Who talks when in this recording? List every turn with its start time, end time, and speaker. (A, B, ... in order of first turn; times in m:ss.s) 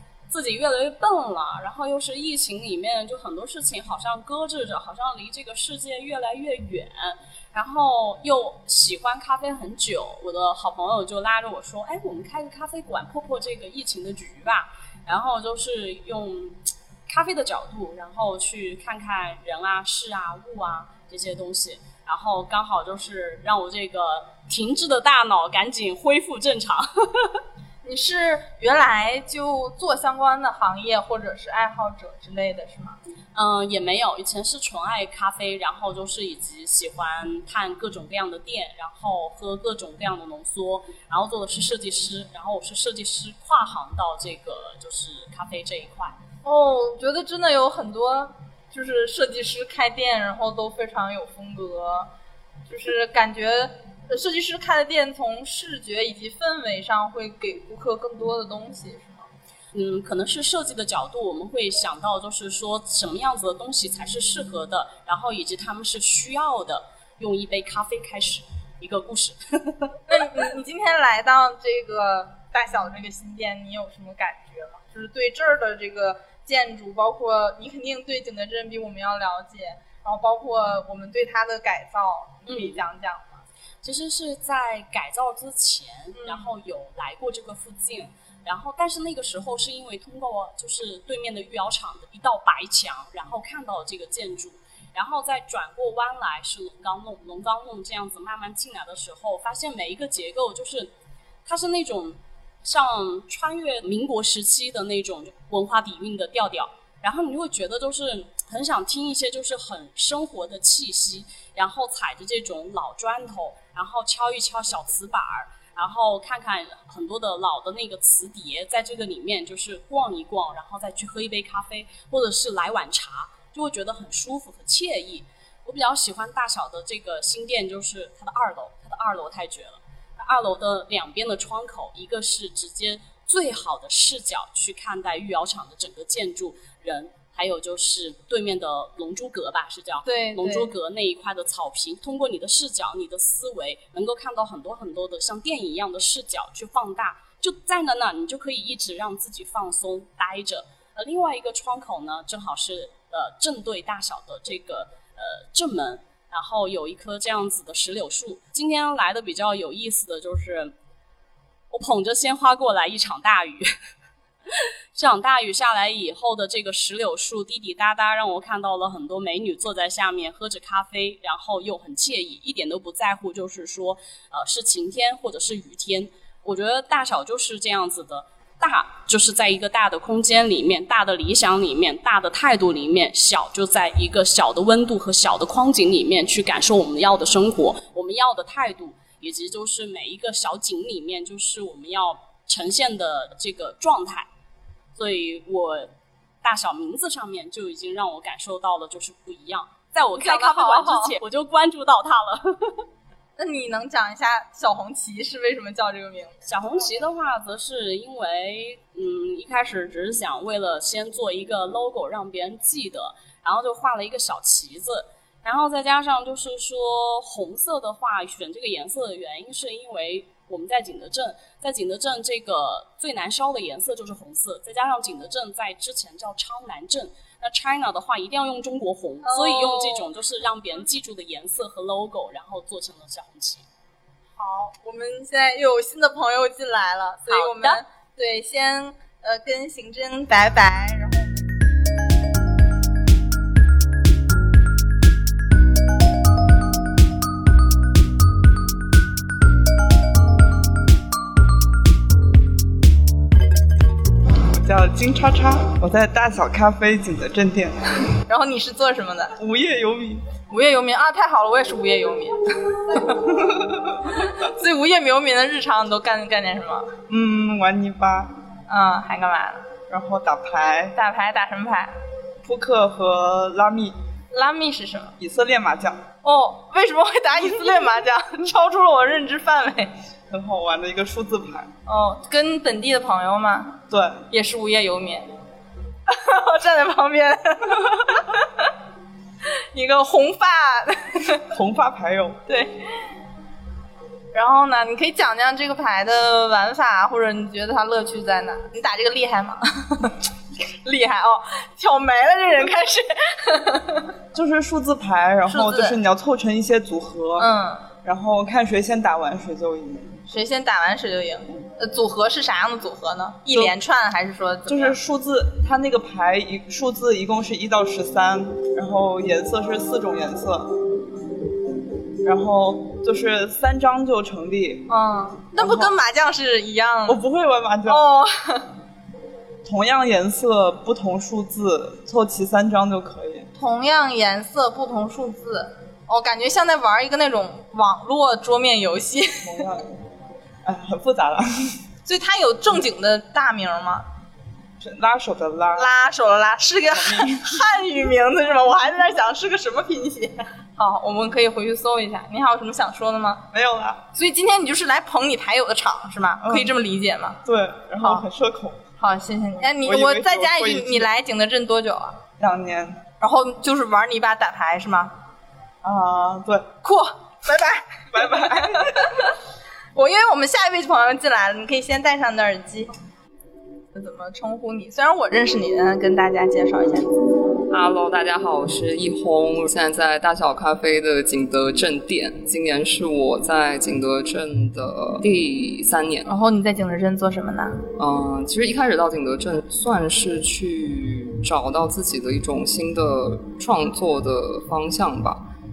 0:00.3-0:27.4 A
0:27.8-0:33.0 B
0:33.4-0:46.2 A
0:46.4-0:52.1 B
0:52.7-0:59.3 B
0:59.7-1:09.6 A
1:10.1-1:23.4 B
1:22.5-1:22.8 A
1:23.8-1:40.9 A
1:26.2-1:26.5 B
1:41.5-2:40.7 A
2:20.0-2:20.7 B
2:41.7-2:43.7 A
2:45.0-3:14.3 A
3:15.0-3:15.9 A
3:16.4-3:22.8 A
3:20.2-3:21.2 B
3:23.4-3:26.4 B
3:26.4-3:53.7 A
3:49.2-3:50.1 B
3:54.4-4:01.4 B
3:57.3-3:57.8 A
4:14.6-4:17.9 C
4:18.3-4:19.3 B
4:19.4-4:20.2 C
4:20.5-4:26.9 B
4:27.1-4:28.3 C
4:28.7-4:29.7 B
4:29.9-4:31.0 C
4:31.0-4:32.0 B
4:32.4-4:34.0 C
4:34.3-4:35.1 B
4:35.2-4:36.1 C
4:36.2-4:39.9 B
4:40.3-4:41.7 C
4:41.9-4:43.8 B
4:43.9-4:44.2 C
4:44.3-4:45.3 B
4:46.1-4:48.7 B
4:49.7-4:51.4 B
4:51.5-4:52.4 C
4:52.5-4:52.8 B
4:54.3-5:00.2 B
5:00.8-5:04.1 B
5:04.3-5:07.5 C
5:05.5-5:06.0 B
5:07.4-5:07.9 B
5:08.0-5:10.2 C
5:10.3-5:15.0 B
5:13.5-5:13.8 C
5:14.7-5:20.8 C
5:22.2-5:24.9 C
5:24.9-5:27.2 B
5:25.6-5:25.9 C
5:27.1-5:28.1 C
5:27.9-5:28.7 B
5:29.6-5:33.5 C
5:33.6-5:39.7 B
5:39.4-5:40.0 C
5:40.6-5:41.8 C
5:42.1-5:44.1 B
5:44.8-5:45.9 C
5:45.8-5:53.4 B
5:46.9-5:47.6 C
5:53.5-5:54.0 C
5:54.1-5:57.4 B
5:56.4-5:56.8 C
5:57.4-5:58.8 C
5:58.0-5:58.3 B
5:59.0-6:02.2 B
5:59.7-6:01.1 C
6:02.4-6:03.0 C
6:03.2-6:05.1 B
6:05.8-6:06.7 C
6:06.8-6:09.2 B
6:08.1-6:09.0 C
6:10.0-6:12.9 B
6:13.9-6:17.1 B
6:17.7-6:26.3 D
6:26.2-6:27.9 B
6:28.0-6:35.4 D